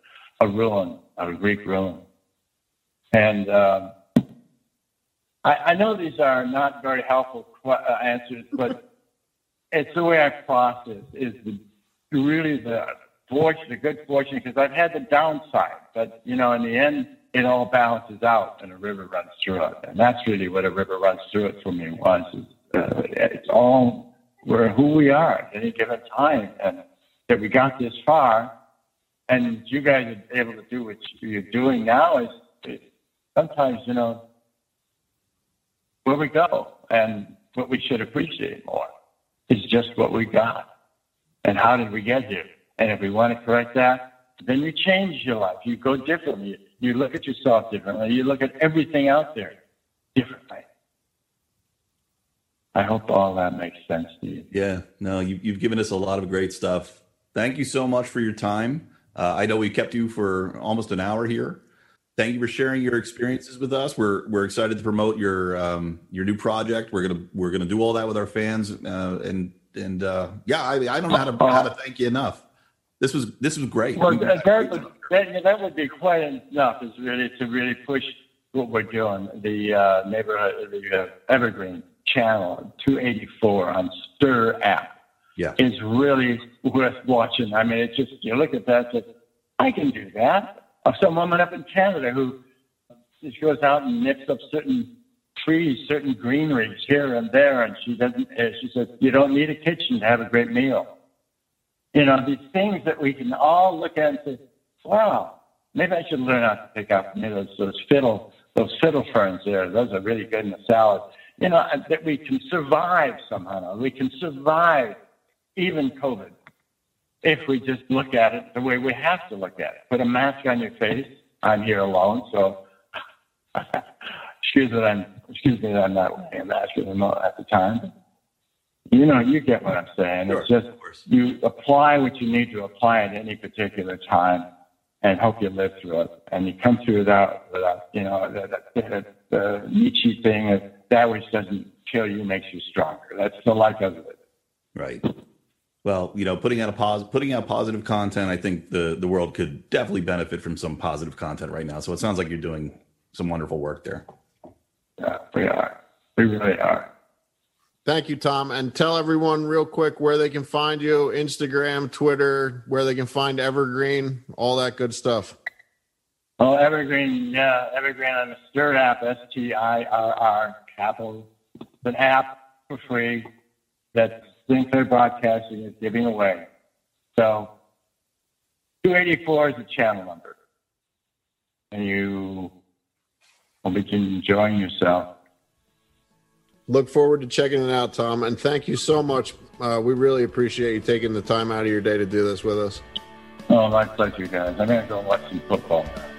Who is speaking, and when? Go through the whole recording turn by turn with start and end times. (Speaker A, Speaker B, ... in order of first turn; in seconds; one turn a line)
Speaker A: 0.4-2.0
Speaker A: 3.1-3.9
Speaker A: 5.4-8.8
Speaker A: 9.7-11.6
Speaker A: 12.1-28.5
Speaker A: 29.3-32.8
Speaker A: 33.4-34.2
Speaker A: 36.0-38.9
Speaker A: 39.5-40.6
Speaker A: 41.4-49.5
Speaker A: 50.1-50.6
Speaker A: 52.8-54.5
Speaker B: 54.5-61.6
Speaker B: 62.2-72.4
Speaker A: 71.2-71.7
Speaker B: 73.0-75.0
Speaker A: 74.0-84.9
Speaker A: 85.6-89.0
Speaker A: 89.6-92.3
Speaker A: 93.2-100.9
Speaker A: 101.9-115.0
Speaker A: 115.6-116.3
Speaker A: 117.2-122.6
Speaker A: 123.5-127.9
Speaker A: 128.9-134.5
Speaker B: 130.3-131.0
Speaker A: 135.0-144.2
Speaker B: 144.8-145.0
Speaker B: 145.8-154.0
Speaker A: 155.0-156.9
Speaker C: 157.9-165.4
Speaker A: 166.4-171.3
Speaker A: 171.8-173.3
Speaker A: 173.9-176.5
Speaker A: 177.2-177.5
Speaker A: 178.8-180.4
Speaker A: 181.7-182.5
Speaker A: 183.6-185.1
Speaker C: 186.7-192.8
Speaker A: 193.5-196.1